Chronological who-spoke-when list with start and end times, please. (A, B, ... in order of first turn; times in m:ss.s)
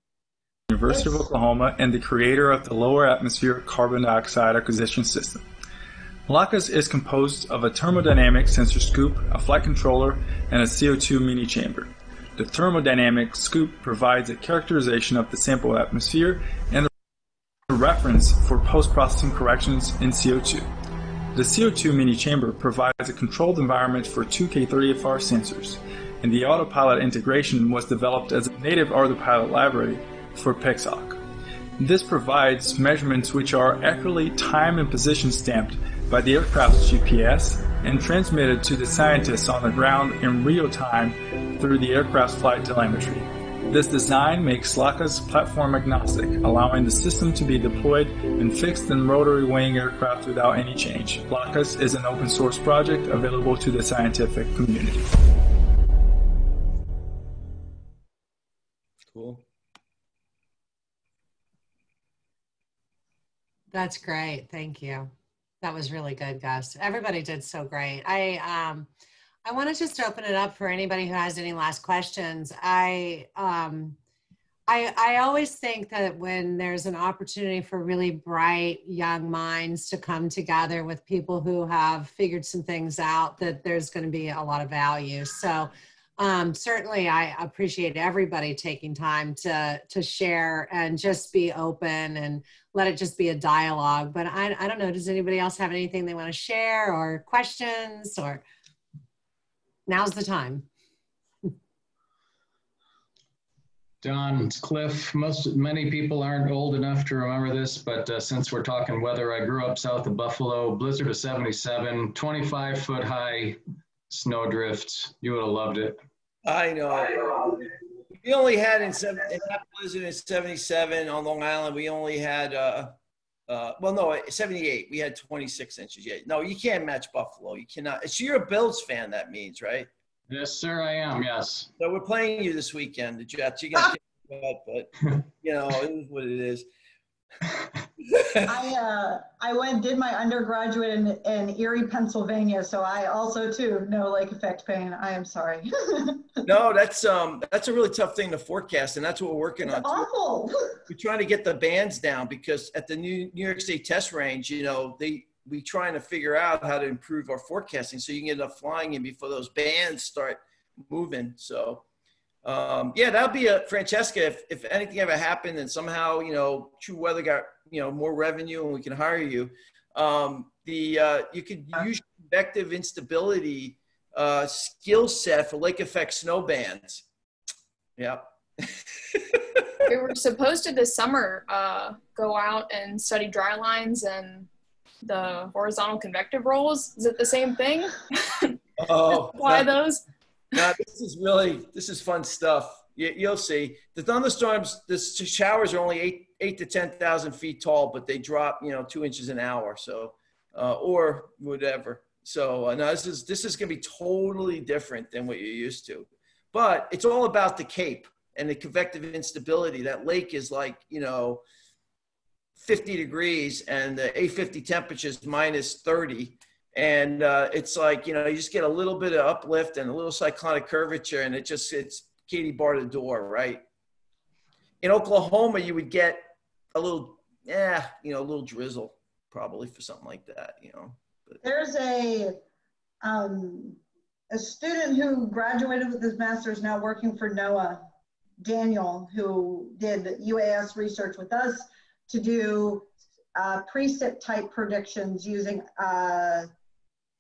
0:00.7-0:05.4 A
0:00.9-0:01.4 B
0:06.3-0:16.9 A
0:17.7-0:20.7 A
0:21.4-0:31.2 A
0:31.8-0:55.0 A
0:59.1-0:59.4 C
1:03.7-1:08.9 D
1:09.4-1:14.0 D
1:14.7-1:38.4 D
1:39.9-1:40.7 D
1:44.0-1:53.6 E
1:54.1-1:56.0 E
1:56.4-1:57.6 C
1:58.2-2:03.0 C
2:03.5-2:09.9 C
2:10.3-2:11.7 E
2:11.8-2:16.7 C
2:18.5-2:26.4 B
2:26.4-2:30.1 C
2:29.6-2:30.8 B
2:30.9-2:41.8 C
2:42.4-2:57.0 C
2:58.0-2:59.4 C
2:59.9-3:04.5 F
3:05.0-3:08.6 F
3:08.8-3:09.7 C
3:09.3-3:10.0 F
3:10.6-3:31.4 C
3:32.6-3:43.6 C
3:44.8-3:51.4 C
3:51.4-3:52.4 B
3:53.0-3:57.9 B
3:58.4-4:06.5 B